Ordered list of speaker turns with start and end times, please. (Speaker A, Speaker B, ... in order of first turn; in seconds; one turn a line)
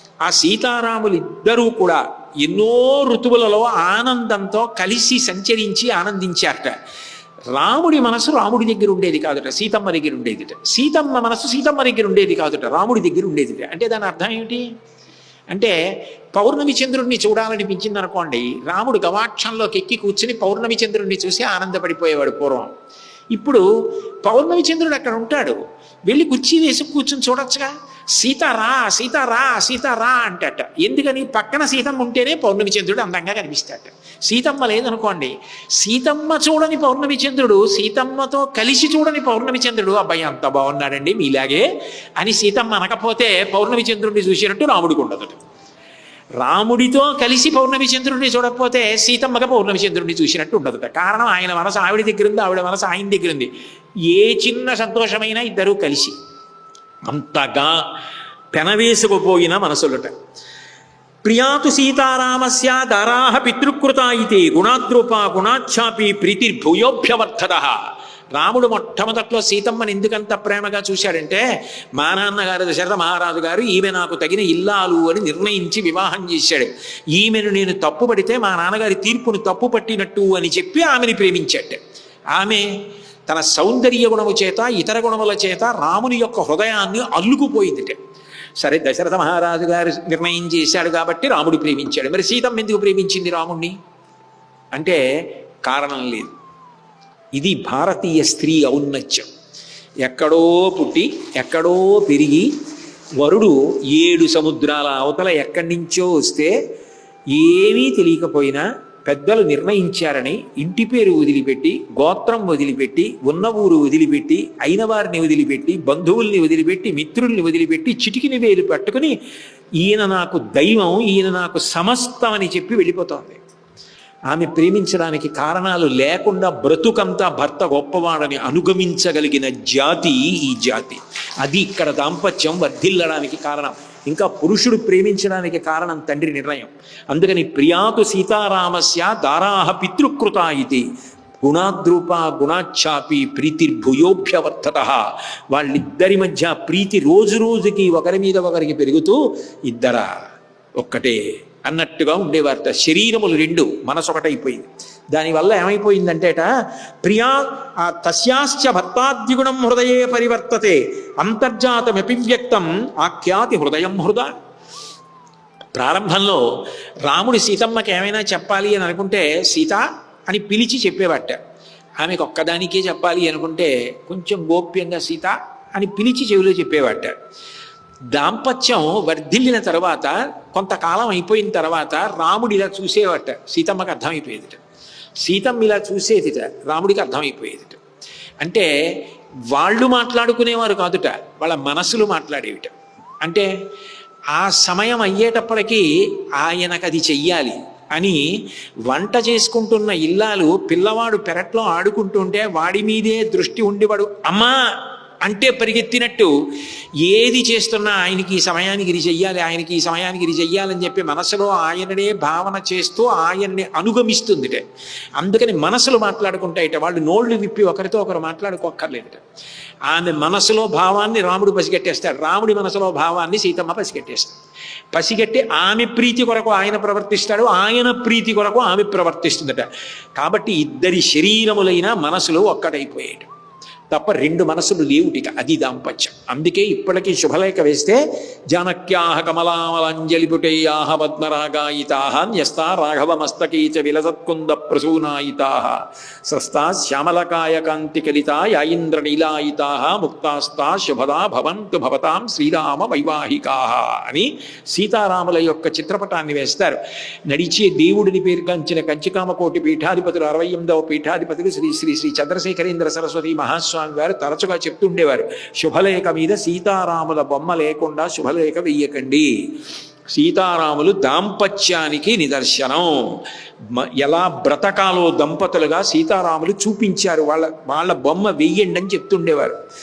Speaker A: 0.2-6.7
Speaker A: 7.5-14.7
Speaker A: 16.3-22.7
Speaker A: 23.3-23.6
Speaker A: 24.2-41.6
Speaker A: 42.2-45.4
Speaker A: 46.4-53.5
Speaker A: 54.1-56.1
Speaker A: 57.0-57.8
Speaker A: 58.5-60.1
Speaker A: 61.2-67.8
Speaker A: 68.3-71.4
Speaker A: 71.9-81.8
Speaker A: 82.3-82.7
Speaker A: 83.3-88.0
Speaker A: 88.6-93.7
Speaker A: 94.7-95.0
Speaker A: 95.6-96.3
Speaker A: 97.3-99.3
Speaker A: 100.0-102.5
Speaker A: 103.2-106.6
Speaker A: 107.3-119.2
Speaker A: 119.8-123.4
Speaker A: 124.3-140.8
Speaker A: 141.4-150.2
Speaker A: 150.8-156.5
Speaker A: 157.0-164.3
Speaker A: 165.7-166.5
Speaker A: 167.0-171.4
Speaker A: 172.0-177.1
Speaker A: 178.1-184.6
Speaker A: 185.2-187.8
Speaker A: 188.4-193.5
Speaker A: 194.3-195.8
Speaker A: 196.4-198.2
Speaker A: 198.8-204.6
Speaker A: 205.2-206.3
Speaker A: 207.0-214.6
Speaker A: 215.2-219.2
Speaker A: 219.9-224.4
Speaker A: 224.9-233.3
Speaker A: 233.9-256.8
Speaker A: 257.3-269.3
Speaker A: 270.1-279.5